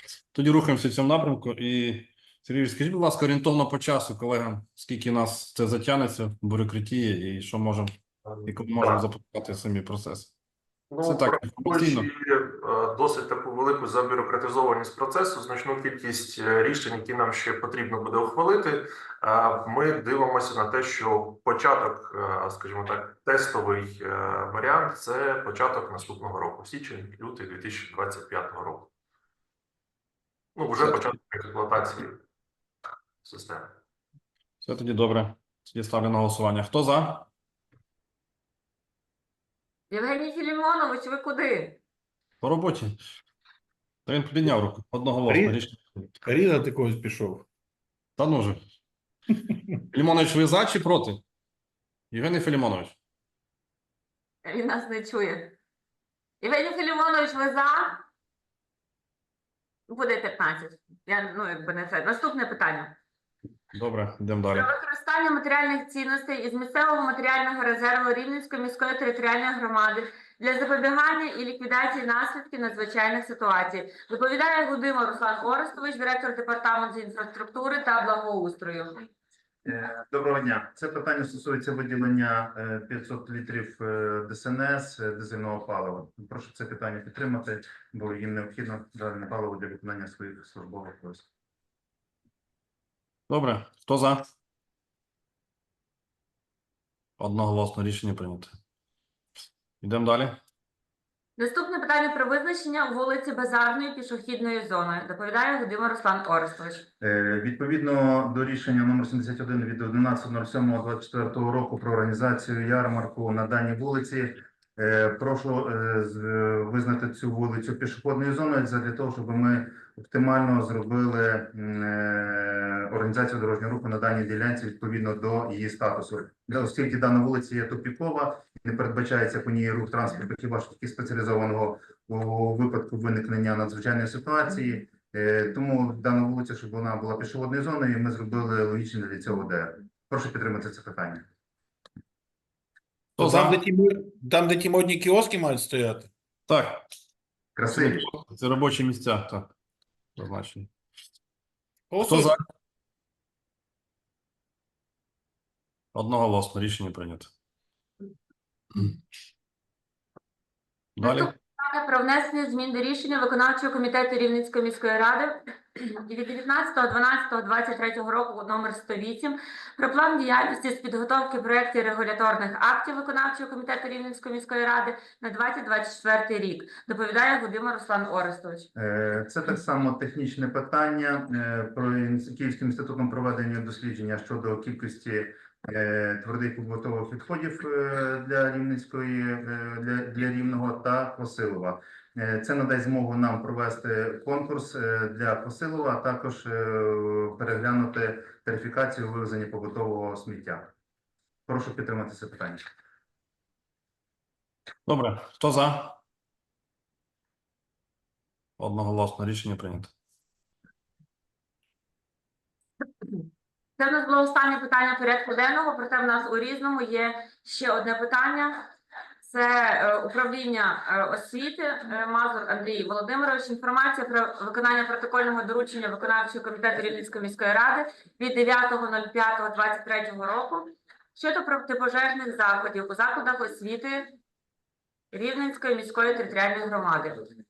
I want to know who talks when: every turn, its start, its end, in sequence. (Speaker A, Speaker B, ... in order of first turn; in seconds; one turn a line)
Speaker A: 0.3-7.9
Speaker B: 8.2-9.0
Speaker A: 8.4-10.3
Speaker B: 10.9-28.9
Speaker A: 11.0-12.1
Speaker B: 30.5-32.2
Speaker B: 33.2-33.7
Speaker A: 34.6-37.3
Speaker C: 39.9-41.8
Speaker A: 42.4-43.0
Speaker A: 44.0-46.0
Speaker D: 45.2-45.6
Speaker D: 46.2-47.5
Speaker A: 48.2-48.6
Speaker A: 49.9-51.2
Speaker A: 52.1-53.0
Speaker C: 54.4-55.5
Speaker C: 56.4-58.0
Speaker C: 59.9-63.0
Speaker A: 63.7-64.7
Speaker C: 64.5-79.0
Speaker E: 79.6-91.2
Speaker A: 93.3-94.3
Speaker A: 97.2-98.5
Speaker A: 99.8-100.4
Speaker C: 101.4-106.9
Speaker E: 107.0-141.2
Speaker A: 143.2-143.6
Speaker D: 143.2-146.1
Speaker A: 146.5-146.8
Speaker E: 147.6-148.1
Speaker A: 147.6-149.5
Speaker A: 150.2-150.7
Speaker D: 151.9-152.3
Speaker A: 152.0-152.4
Speaker A: 155.9-157.3
Speaker A: 160.9-161.3
Speaker C: 161.0-178.7
Speaker E: 178.8-200.7
Speaker E: 201.5-202.6
Speaker A: 204.8-206.0
Speaker A: 208.6-209.9
Speaker C: 213.8-218.7
Speaker C: 219.2-234.1
Speaker C: 235.1-237.2